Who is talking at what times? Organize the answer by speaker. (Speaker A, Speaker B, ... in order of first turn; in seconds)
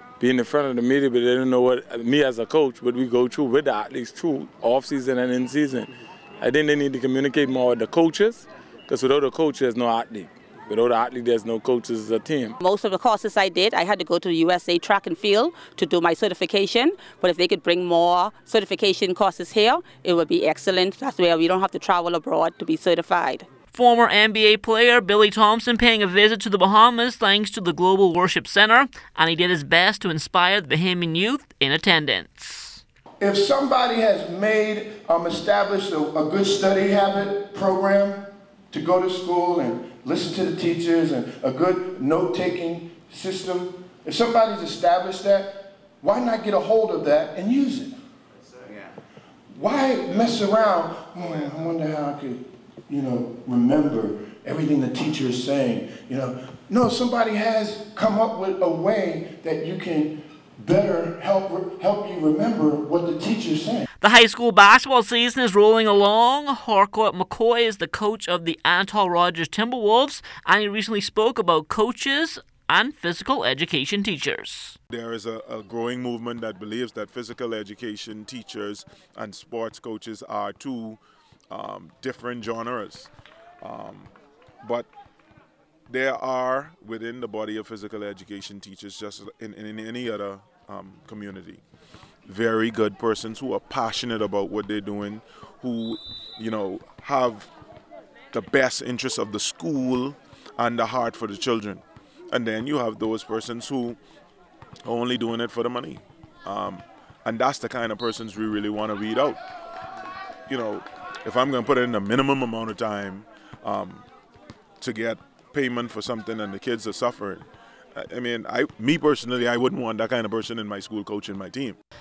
Speaker A: 0.2-12.6
Speaker B: 12.6-23.5
Speaker C: 23.7-32.8, 64.0-74.8
Speaker D: 33.2-48.0, 49.5-63.9
Speaker E: 74.9-81.0, 81.5-83.1, 83.6-84.1, 84.6-84.9, 85.9-91.6, 92.3-97.5, 98.3-104.0, 104.8-109.4, 110.5-114.0, 114.8-121.8